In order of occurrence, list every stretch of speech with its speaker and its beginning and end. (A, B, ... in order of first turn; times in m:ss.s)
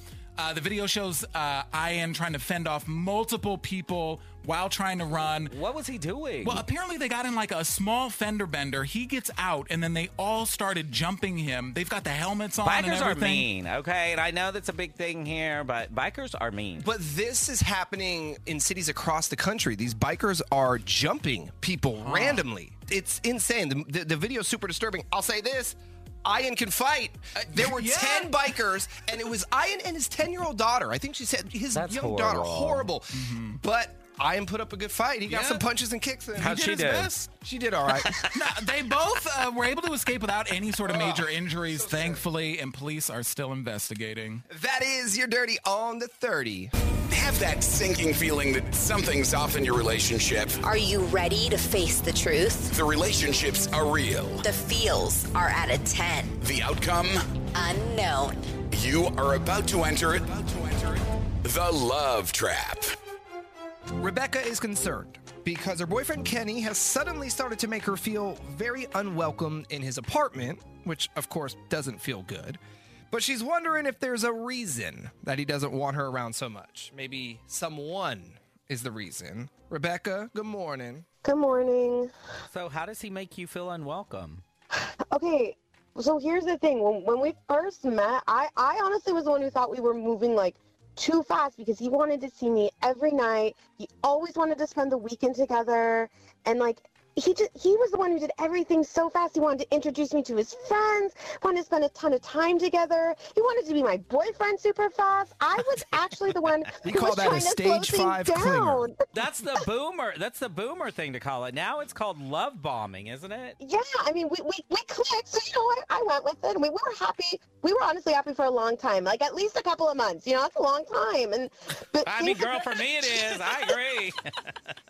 0:00.4-0:05.5 A
0:05.5-0:06.6 B
0:06.4-0:13.5 A
0:12.6-0:16.9 B
0:16.8-0:36.7 C
0:22.0-0:22.4 A
0:27.4-0:28.4 A
0:31.7-0:32.9 B
0:33.1-0:33.6 A
0:35.3-0:35.6 A
0:36.4-0:37.3 A
0:36.4-0:37.1 B
0:37.3-0:38.2 C
0:38.0-0:38.4 B
0:38.3-0:44.4 A
0:40.8-0:42.2 C
0:44.5-0:46.7 C
0:47.1-0:50.6 D
0:50.6-0:52.7 E
0:52.7-0:54.4 D
0:54.4-0:56.4 E
0:56.4-0:57.3 D
0:57.5-0:58.5 E
0:58.7-1:02.9 D
1:04.0-1:12.6 C
1:13.1-1:21.0 C
1:21.2-1:22.1 F
1:22.5-1:24.4 B
1:25.1-1:49.0 F
1:46.8-1:48.9 C
1:49.1-1:53.6 B
1:53.6-2:03.8 F
2:02.0-2:04.7 B